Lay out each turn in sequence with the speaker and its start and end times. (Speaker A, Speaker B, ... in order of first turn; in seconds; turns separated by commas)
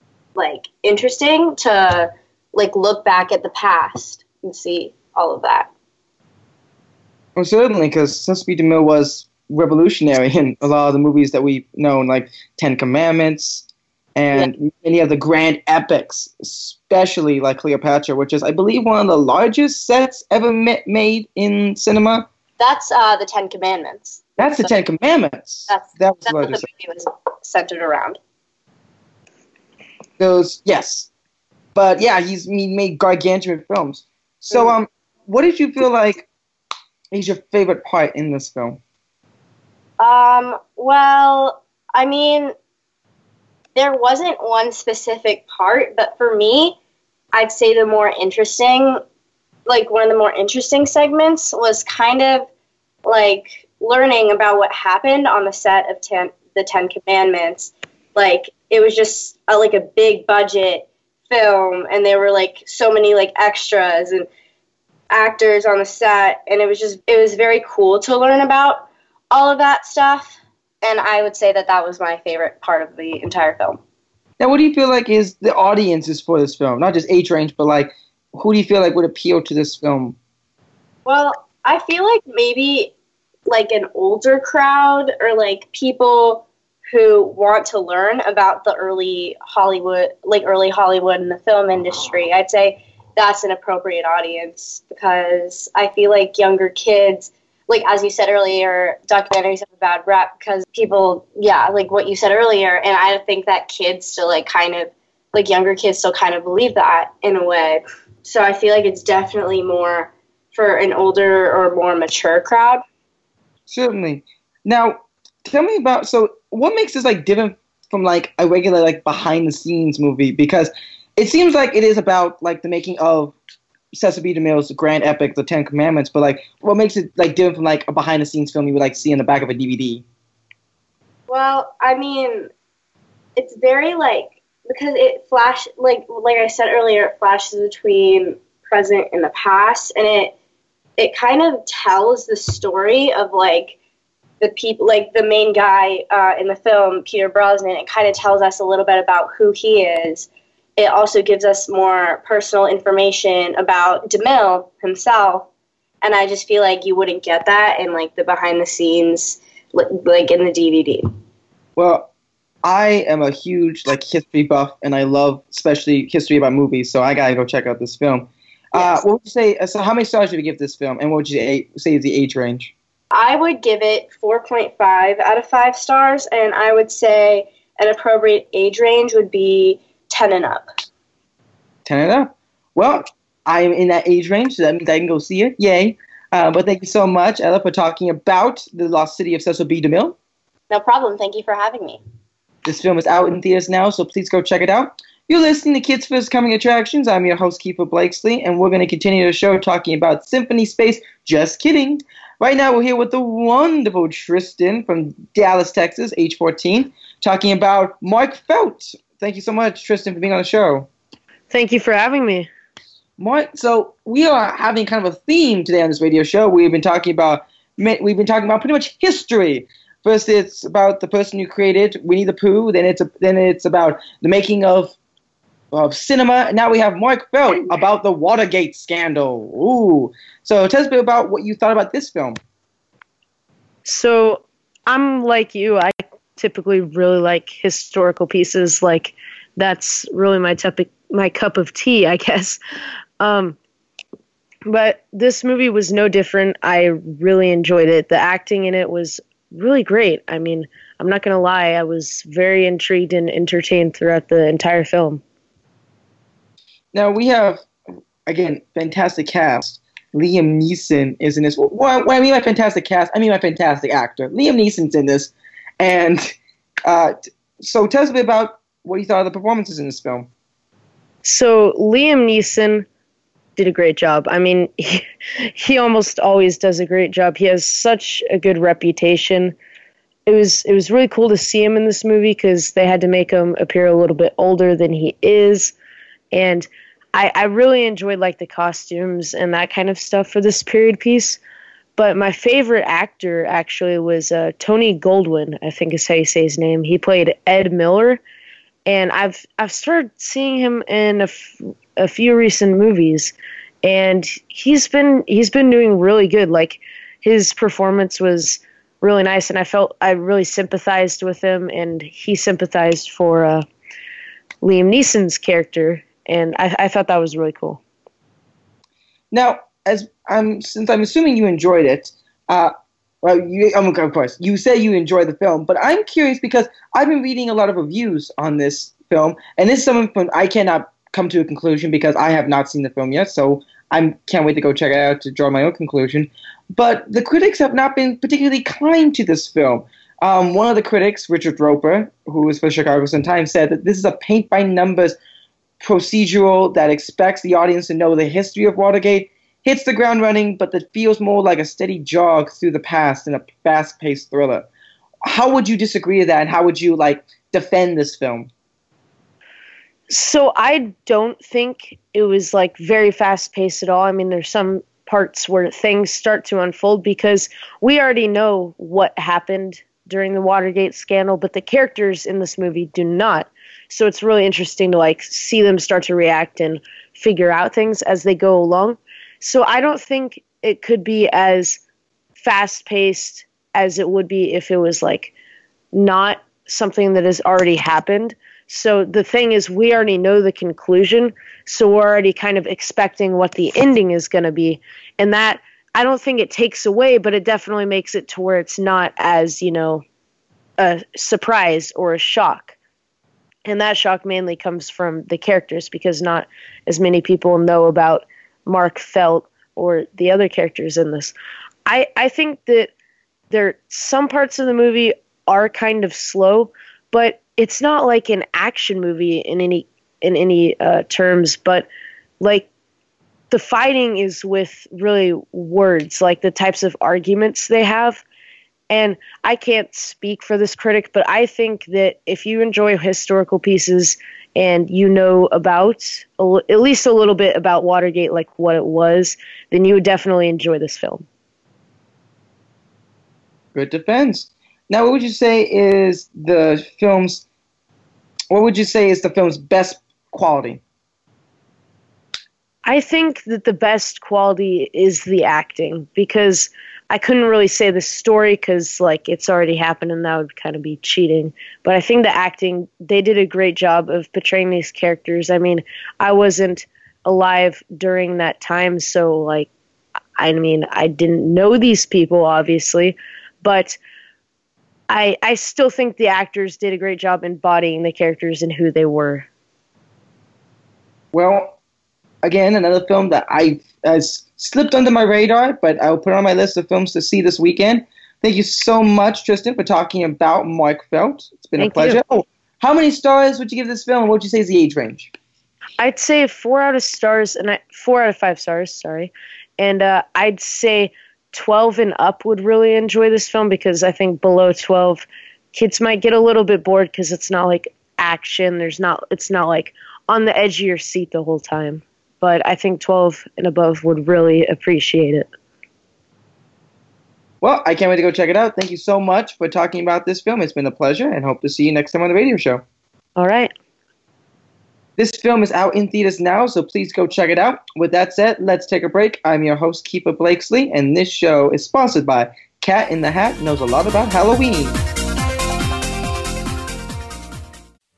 Speaker A: 0.3-5.7, Speaker B: 7.3-22.3, Speaker A: 22.6-24.7, Speaker B: 24.4-26.6, Speaker A: 25.7-28.2, Speaker B: 30.2-31.1, Speaker B: 31.8-36.3, Speaker A: 34.5-34.8, Speaker B: 37.1-38.8, Speaker A: 40.0-42.5, Speaker A: 43.7-46.8, Speaker A: 47.3-49.0, Speaker A: 49.6-52.5, Speaker A: 53.0-64.3, Speaker A: 65.1-73.8, Speaker B: 74.4-80.2, Speaker A: 81.0-82.9, Speaker A: 83.5-112.8, Speaker B: 113.7-123.3, Speaker B: 123.9-130.0, Speaker A: 131.3-132.5, Speaker A: 133.3-140.3, Speaker A: 141.0-143.8, Speaker A: 144.4-155.5, Speaker A: 156.0-161.1, Speaker B: 161.8-162.1, Speaker B: 162.6-172.7, Speaker A: 168.7-169.0, Speaker A: 173.1-180.7, Speaker B: 181.8-190.2, Speaker A: 190.7-192.0, Speaker B: 192.6-210.9, Speaker C: 211.5-212.5, Speaker B: 213.2-224.9, Speaker B: 225.7-232.4, Speaker C: 233.8-242.6, Speaker C: 243.2-243.6, Speaker C: 244.7-255.2, Speaker B: 256.9-257.6, Speaker B: 258.2-270.3, Speaker C: 271.2-272.9, Speaker C: 273.6-279.6, Speaker C: 280.3-285.7, Speaker C: 286.3-291.4, Speaker C: 292.0-298.2, Speaker C: 298.9-313.6, Speaker C: 314.6-317.8, Speaker B: 319.3-345.2, Speaker B: 345.8-354.7, Speaker B: 355.2-358.5, Speaker C: 360.1-381.8, Speaker C: 382.4-385.3, Speaker C: 385.9-400.0, Speaker C: 400.8-402.7, Speaker C: 403.6-411.3, Speaker C: 411.9-412.9, Speaker C: 413.5-421.9, Speaker C: 422.4-422.7, Speaker C: 423.5-428.2, Speaker C: 428.9-441.2, Speaker B: 443.7-447.4, Speaker B: 448.5-450.8, Speaker C: 452.8-469.7, Speaker C: 470.4-474.0, Speaker C: 475.1-479.4, Speaker B: 481.3-481.8, Speaker B: 482.4-495.3, Speaker C: 491.8-492.2, Speaker C: 496.0-515.5, Speaker B: 517.6-522.8, Speaker C: 523.4-523.7, Speaker B: 525.2-535.0